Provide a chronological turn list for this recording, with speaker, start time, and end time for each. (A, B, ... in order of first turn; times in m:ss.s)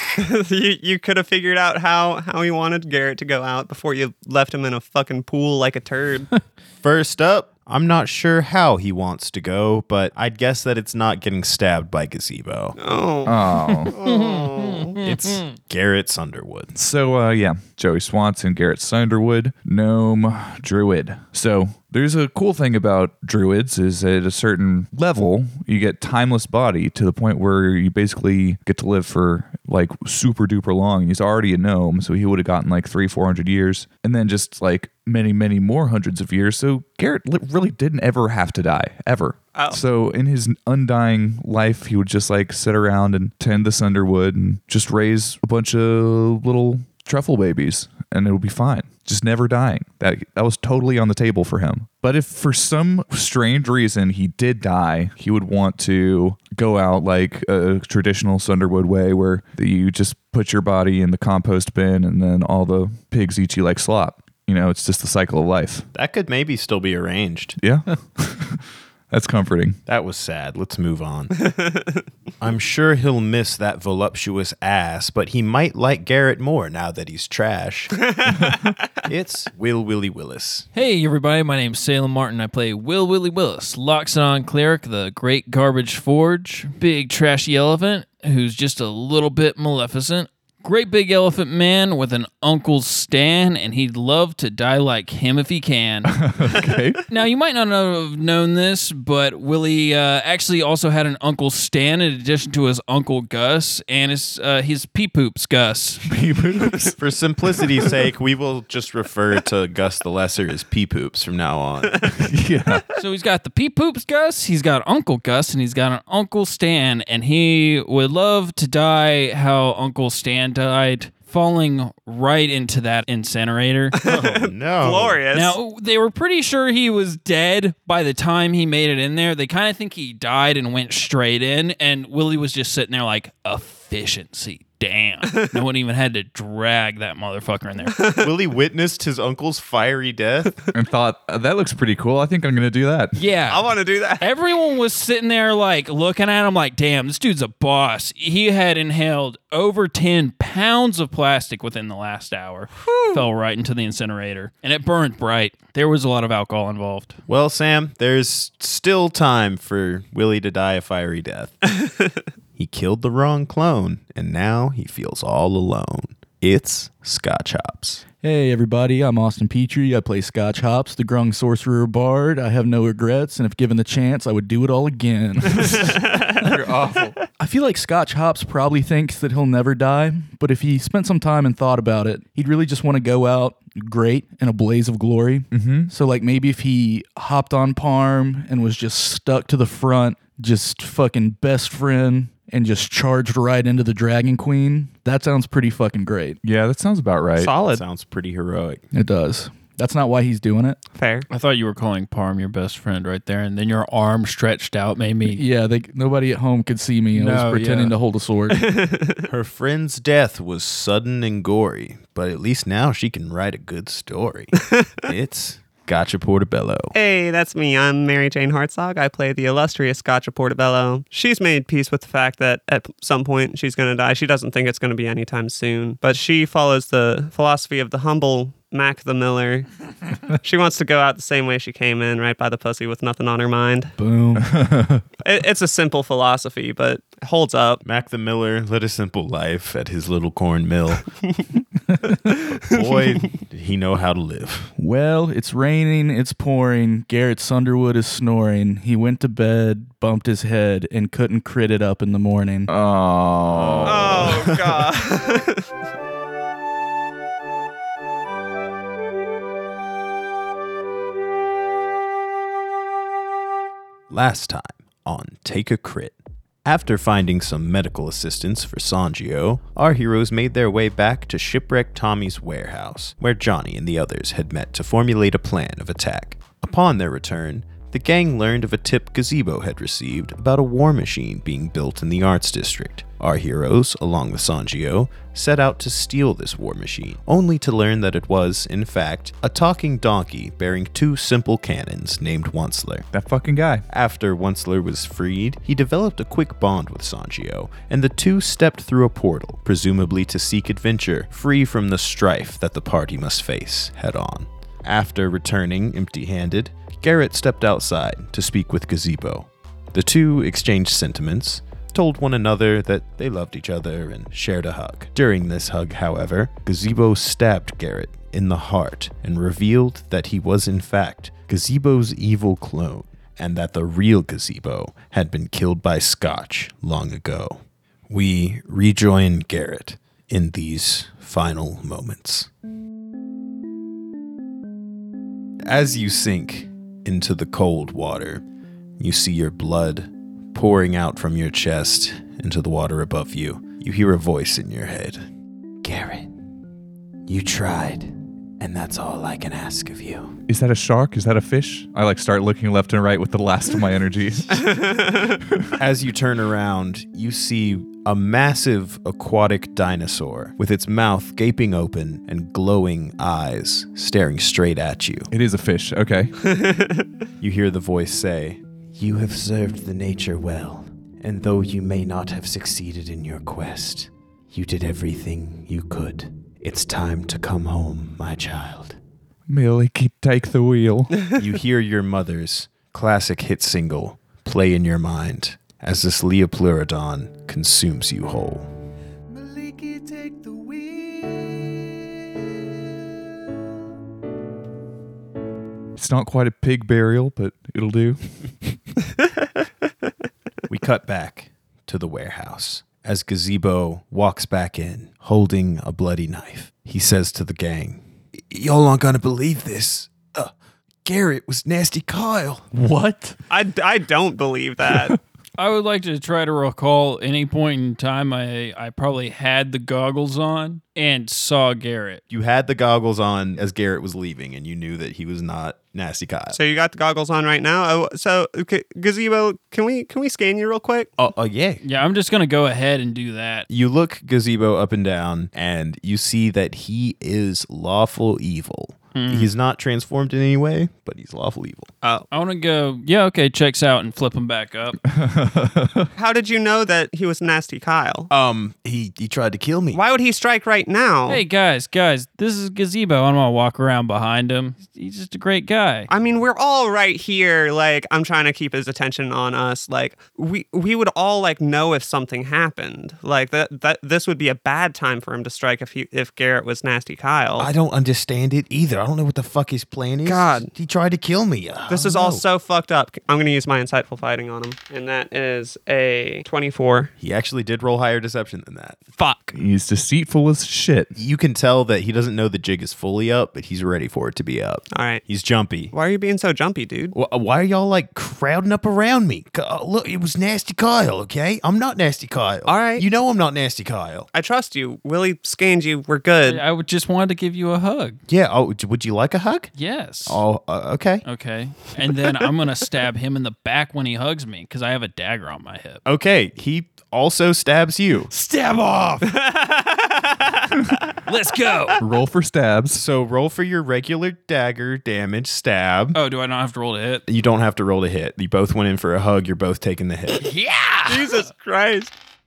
0:00.2-0:06.3 A
0:06.8-0:12.8 B
0:12.8-0:15.0 A
0:13.2-0:13.9 C
0:14.0-0:15.5 D
0:15.0-0:16.7 B
0:16.7-1:05.9 C
0:39.5-0:39.8 A
1:05.9-1:07.6 B
1:07.6-1:09.8 C
1:09.9-1:11.4 B
1:11.4-1:12.0 A
1:12.4-1:18.1 B
1:18.0-1:18.5 A
1:19.0-1:20.7 B
1:20.7-1:36.2 D
1:36.1-1:37.0 C
1:37.1-1:46.0 D
1:46.0-1:47.0 C
1:47.0-1:52.1 B
1:52.2-1:52.8 C
1:53.0-2:04.0 D
2:04.0-2:05.6 A
2:04.0-2:05.2 B
2:05.3-2:18.0 D
2:18.0-2:18.3 A
2:18.2-2:20.6 B
2:20.7-2:23.2 C
2:23.1-2:23.6 D
2:23.5-2:24.3 A
2:24.2-2:37.2 D
2:32.8-2:33.2 A
2:37.3-2:41.6 B
2:42.6-2:48.0 B
2:48.2-2:56.0 E
2:55.6-2:56.4 A
2:56.4-2:57.2 C
2:57.4-3:16.4 E
3:05.5-3:05.9 C
3:16.4-3:17.5 C
3:17.4-3:17.8 A
3:17.7-3:18.8 B
3:18.9-3:20.8 E
3:20.9-3:21.2 A
3:21.3-3:25.4 D
3:25.3-3:28.8 E
3:27.1-3:27.9 D
3:28.5-3:29.2 A
3:29.2-3:36.9 B
3:36.9-3:49.7 A
3:50.4-3:53.9 A
3:54.0-3:54.8 E
3:54.4-3:55.0 C
3:55.2-3:57.8 A
3:57.8-4:01.0 B
4:02.3-4:03.3 A
4:02.6-4:04.7 B
4:04.8-4:12.7 E
4:12.7-4:14.6 C
4:13.8-4:15.7 A
4:24.1-4:53.1 B
4:53.1-4:53.8 C
4:53.9-5:32.5 B
5:35.6-5:38.4 B
5:39.0-5:45.2 B
5:45.8-5:46.3 B
5:47.3-5:50.4 B
5:50.5-5:54.8 C
5:54.6-5:55.4 A
5:55.8-6:05.3 B
6:05.3-6:06.3 C
6:06.4-6:07.0 A
6:07.4-6:19.0 B
6:19.5-6:21.1 C
6:21.3-6:28.7 B
6:29.9-6:30.2 E
6:30.4-6:31.0 B
6:36.0-6:38.2 C
6:40.7-6:50.5 B
6:51.0-6:52.7 B
6:52.7-6:53.4 E
6:53.5-6:55.2 A
6:55.6-7:02.2 D
7:02.3-7:06.6 B
7:06.5-7:11.1 A
7:11.2-7:11.8 B
7:11.8-7:13.6 D
7:13.7-7:21.9 B
7:19.1-7:19.5 D
7:22.0-7:22.3 A
7:22.3-7:25.0 D
7:25.0-7:26.1 C
7:26.2-7:28.3 A
7:28.3-7:30.0 B
7:29.9-7:31.4 A
7:31.3-7:36.1 D
7:36.1-7:47.7 A
7:47.6-7:52.4 B
7:50.2-7:50.7 A
7:51.9-7:57.1 A
7:57.2-7:59.0 B
7:59.2-7:59.6 A
7:59.5-8:01.1 C
8:01.2-8:05.9 B
8:04.9-8:05.2 A
8:05.9-8:07.1 A
8:07.1-8:14.3 B
8:12.6-8:13.0 A
8:14.3-8:16.6 A
8:16.4-8:18.2 D
8:18.3-8:19.7 B
8:19.8-8:20.4 D
8:20.2-8:21.2 B
8:21.2-8:26.0 D
8:26.0-8:28.3 B
8:28.3-8:29.3 D
8:29.2-8:30.6 A
8:31.2-8:32.0 D
8:32.0-8:33.0 C
8:32.9-8:36.2 B
8:36.1-8:37.2 D
8:37.3-8:40.4 B
8:40.3-8:41.4 D
8:41.0-8:42.1 A